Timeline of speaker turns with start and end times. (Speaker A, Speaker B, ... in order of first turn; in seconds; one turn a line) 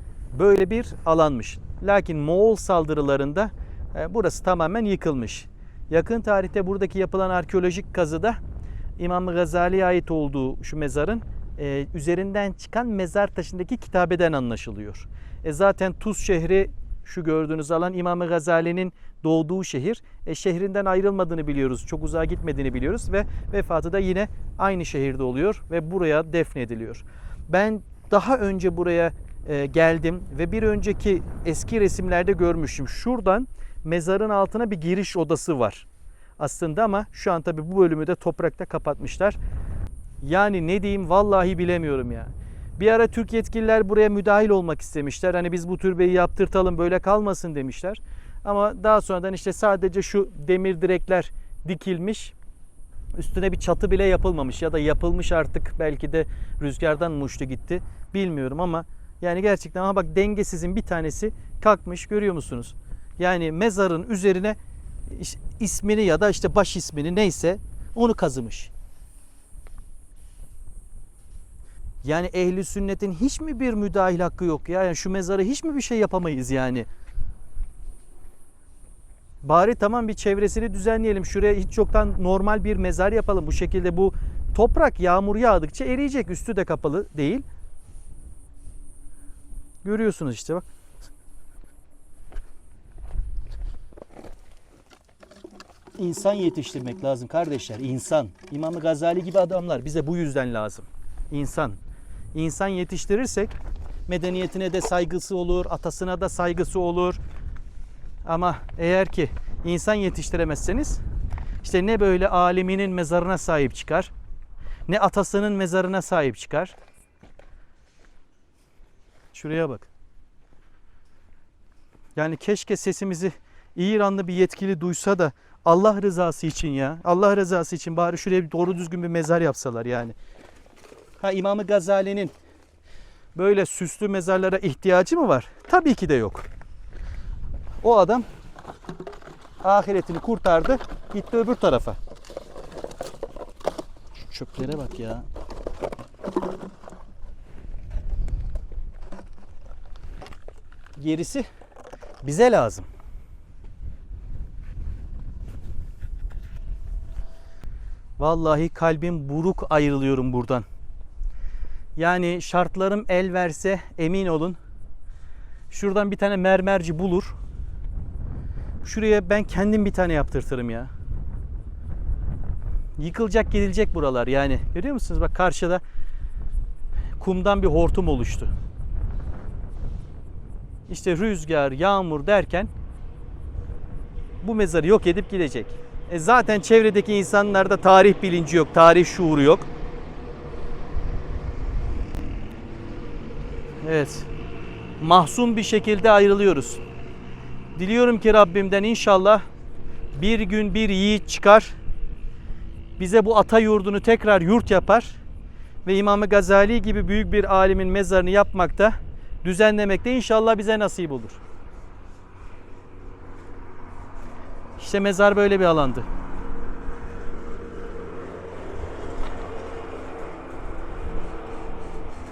Speaker A: 0.3-8.4
Speaker A: 9.0-35.9
Speaker A: 36.4-39.4
Speaker A: 40.2-52.4
Speaker A: 53.2-64.6
Speaker A: 65.1-68.7
Speaker A: 72.0-76.9
Speaker A: 79.4-87.5
Speaker A: 89.8-90.7
Speaker A: 96.0-101.8
Speaker A: 102.3-103.5
Speaker A: 104.1-107.2
Speaker A: 108.2-111.0
Speaker A: 111.6-114.1
Speaker A: 114.9-116.8
Speaker A: 119.3-119.9
Speaker A: 122.2-130.2
Speaker A: 131.2-132.3
Speaker A: 133.3-136.5
Speaker A: 137.8-138.3
Speaker A: 139.6-142.0
Speaker A: 144.3-145.3
Speaker A: 151.0-151.5
Speaker A: 152.2-152.9
Speaker A: 158.2-160.7
Speaker A: 162.0-164.6
Speaker A: 165.7-167.4
Speaker A: 168.8-170.9
Speaker A: 173.0-175.8
Speaker A: 177.2-178.5
Speaker A: 180.9-182.7
Speaker A: 184.4-189.7
Speaker A: 193.8-194.3
Speaker A: 195.0-196.8
Speaker A: 197.8-199.4
Speaker A: 200.1-201.8
Speaker A: 203.0-205.2
Speaker A: 205.8-211.4
Speaker A: 214.8-216.1